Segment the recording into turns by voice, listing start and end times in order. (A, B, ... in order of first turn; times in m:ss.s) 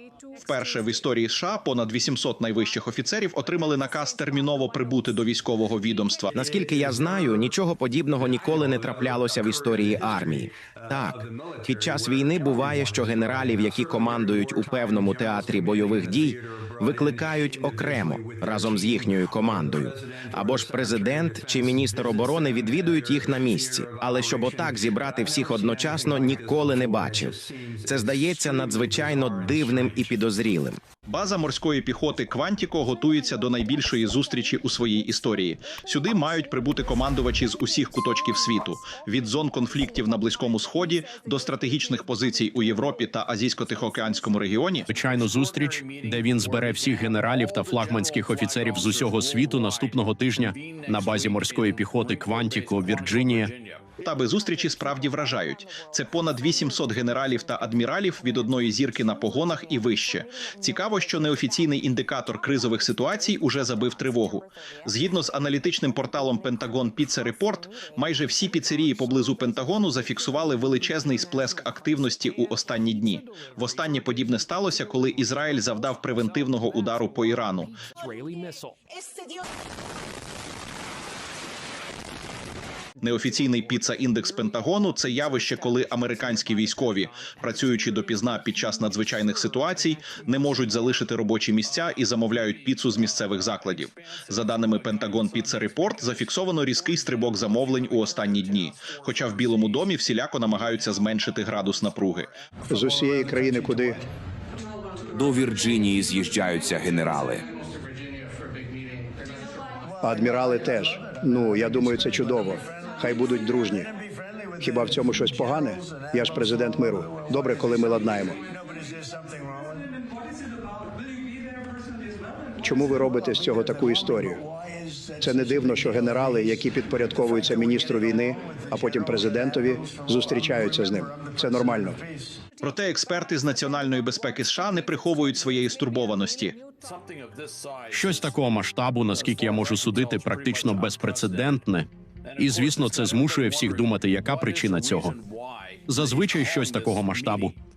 0:00.4-0:06.3 A
0:06.3-0:30.8 B
0:31.1-0:44.9 A
0:44.9-0:53.5 C
0:54.0-1:17.7 A
1:23.0-1:42.3 A
1:42.7-1:44.0 D
1:45.1-1:47.5 E
1:50.0-1:53.9 D
1:54.6-1:58.4 D
2:02.6-2:04.4 D
2:05.2-2:12.0 D
2:12.6-2:16.6 A
2:17.9-2:25.2 C
2:25.9-2:27.6 C